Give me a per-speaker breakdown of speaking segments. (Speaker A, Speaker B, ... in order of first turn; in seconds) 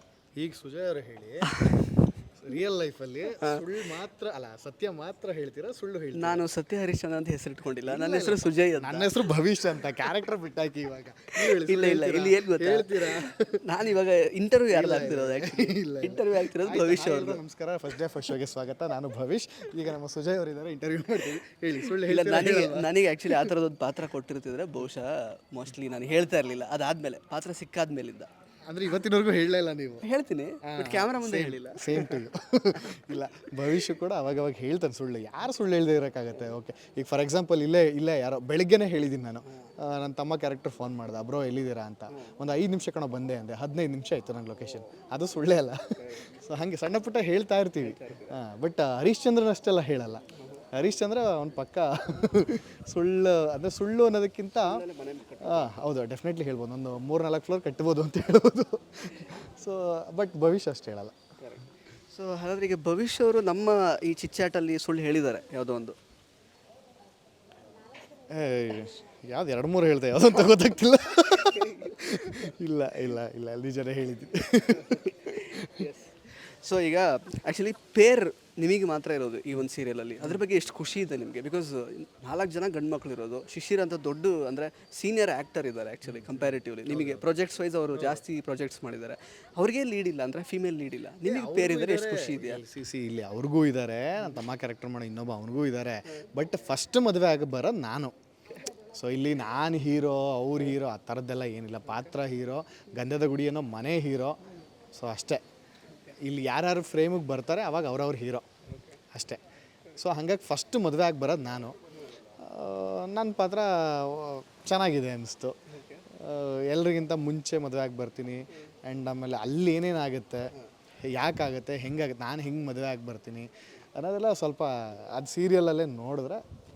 Speaker A: 0.4-1.7, 2.4-6.4, 7.8-13.7, 14.7-23.6, 28.7-30.1, 30.6-54.9, 55.4-61.2, 68.3-75.9, 86.9-87.4, 87.9-88.2, 91.2-98.1, 99.0-104.4, 104.9-105.4, 106.2-108.5, 109.1-109.4, 110.0-111.8, 112.4-115.5, 116.1-126.4
Speaker B: 1.5-1.9, 3.4-3.7, 6.2-9.1, 11.3-17.4, 21.9-28.3, 30.0-32.2, 32.8-33.2, 46.0-46.3, 47.8-48.4, 54.6-55.8, 61.4-66.0, 71.5-72.0, 74.8-92.6